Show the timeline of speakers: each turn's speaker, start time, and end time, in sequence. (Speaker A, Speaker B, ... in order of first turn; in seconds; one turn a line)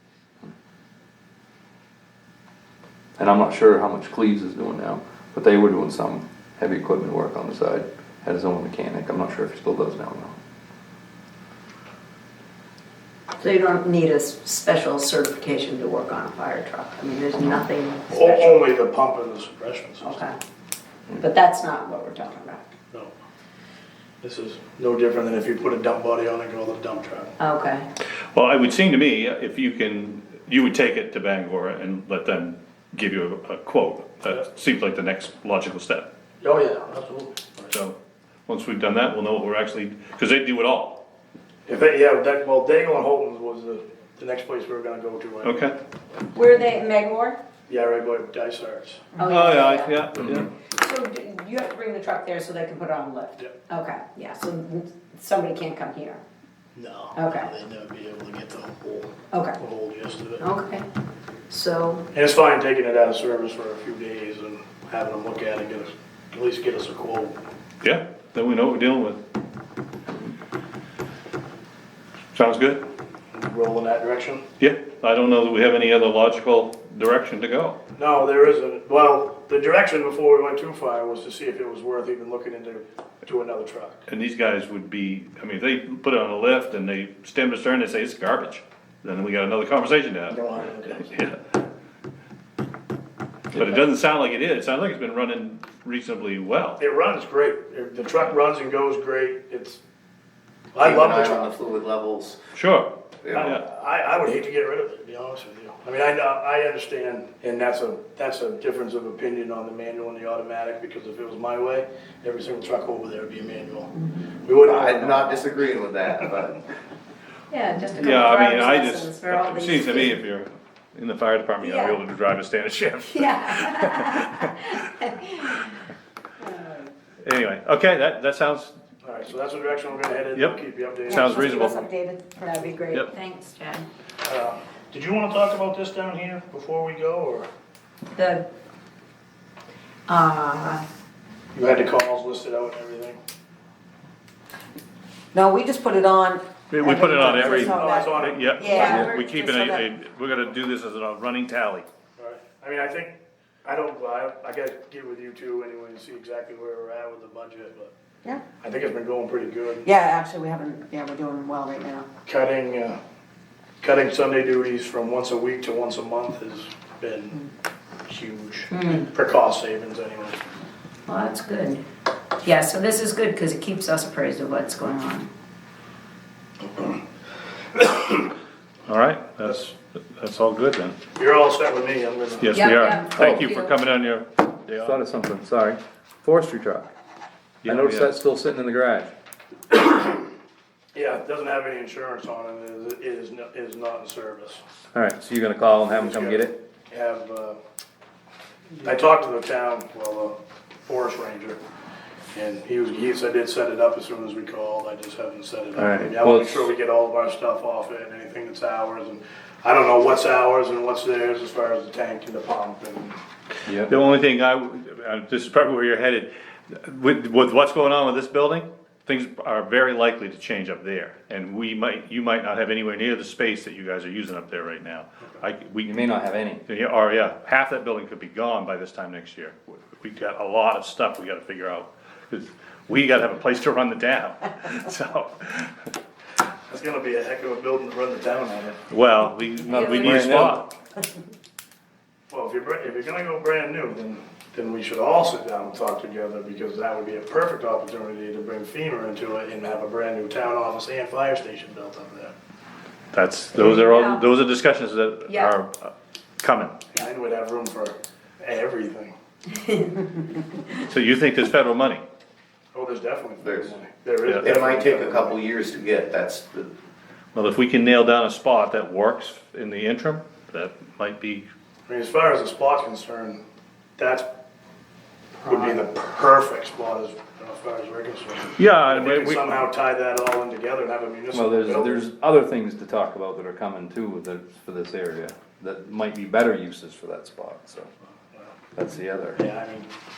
Speaker A: 3.2-10.3
Speaker B: 13.4-18.7
Speaker C: 18.1-20.1
Speaker B: 20.0-20.4
Speaker B: 21.1-22.7
Speaker C: 24.2-27.3
Speaker B: 27.4-27.9
Speaker D: 28.3-36.1
Speaker C: 36.4-37.7
Speaker D: 38.5-41.0
Speaker C: 41.7-45.7
Speaker D: 45.4-45.7
Speaker B: 46.3-47.4
Speaker C: 47.7-49.0
Speaker B: 49.2-50.0
Speaker D: 49.2-50.5
Speaker A: 50.2-50.5
Speaker B: 50.8-56.2
Speaker C: 56.8-60.4
Speaker B: 57.1-57.5
Speaker B: 59.3-59.6
Speaker B: 60.4-60.9
Speaker B: 61.5-62.1
Speaker C: 62.1-67.4
Speaker D: 67.8-69.2
Speaker D: 72.3-72.8
Speaker C: 73.3-74.5
Speaker D: 74.6-77.8
Speaker C: 78.0-84.1
Speaker D: 84.1-90.4
Speaker C: 90.3-91.2
Speaker D: 91.0-91.4
Speaker D: 93.5-96.8
Speaker C: 96.8-99.8
Speaker C: 100.7-101.5
Speaker E: 100.8-102.4
Speaker D: 102.5-103.6
Speaker E: 103.2-103.5
Speaker C: 103.3-115.5
Speaker E: 114.6-116.6
Speaker B: 117.5-120.2
Speaker D: 117.9-124.5
Speaker B: 121.6-122.0
Speaker B: 123.1-125.7
Speaker B: 126.4-126.9
Speaker D: 127.2-128.8
Speaker C: 129.0-131.7
Speaker D: 130.3-131.9
Speaker F: 131.1-132.8
Speaker B: 132.3-133.9
Speaker C: 134.2-137.5
Speaker B: 138.1-138.5
Speaker B: 140.1-140.8
Speaker C: 141.5-143.2
Speaker F: 145.3-149.9
Speaker D: 146.7-151.9
Speaker C: 147.2-149.1
Speaker B: 147.2-147.6
Speaker C: 152.2-157.9
Speaker C: 158.6-159.9
Speaker F: 159.9-162.1
Speaker C: 162.3-163.0
Speaker C: 163.8-167.4
Speaker C: 168.1-170.4
Speaker B: 168.7-169.1
Speaker B: 171.1-171.8
Speaker B: 172.4-175.3
Speaker C: 176.7-177.0
Speaker C: 177.8-178.3
Speaker D: 178.9-181.0
Speaker C: 181.2-182.7
Speaker D: 182.4-185.0
Speaker B: 182.5-183.8
Speaker A: 183.2-183.5
Speaker A: 184.8-186.9
Speaker D: 187.6-188.1
Speaker A: 187.7-189.1
Speaker C: 189.8-190.0
Speaker C: 190.9-194.6
Speaker A: 194.9-196.6
Speaker C: 195.9-197.6
Speaker C: 198.8-201.6
Speaker C: 202.3-213.2
Speaker A: 205.8-206.7
Speaker A: 213.7-213.9
Speaker D: 213.9-226.0
Speaker A: 225.8-226.6
Speaker D: 226.7-235.9
Speaker C: 236.7-238.8
Speaker D: 238.9-240.7
Speaker A: 239.6-240.7
Speaker B: 239.7-240.2
Speaker C: 242.3-252.3
Speaker D: 253.1-256.8
Speaker B: 253.6-254.3
Speaker B: 255.3-255.6
Speaker C: 256.9-259.1
Speaker B: 259.5-260.2
Speaker D: 260.9-262.0
Speaker C: 262.7-265.4
Speaker E: 263.4-263.7
Speaker E: 264.4-266.7
Speaker D: 267.3-271.5
Speaker C: 271.9-273.4
Speaker C: 274.0-274.3
Speaker C: 275.4-282.0
Speaker D: 278.6-279.6
Speaker A: 281.3-287.9
Speaker A: 288.8-289.4
Speaker C: 289.4-289.9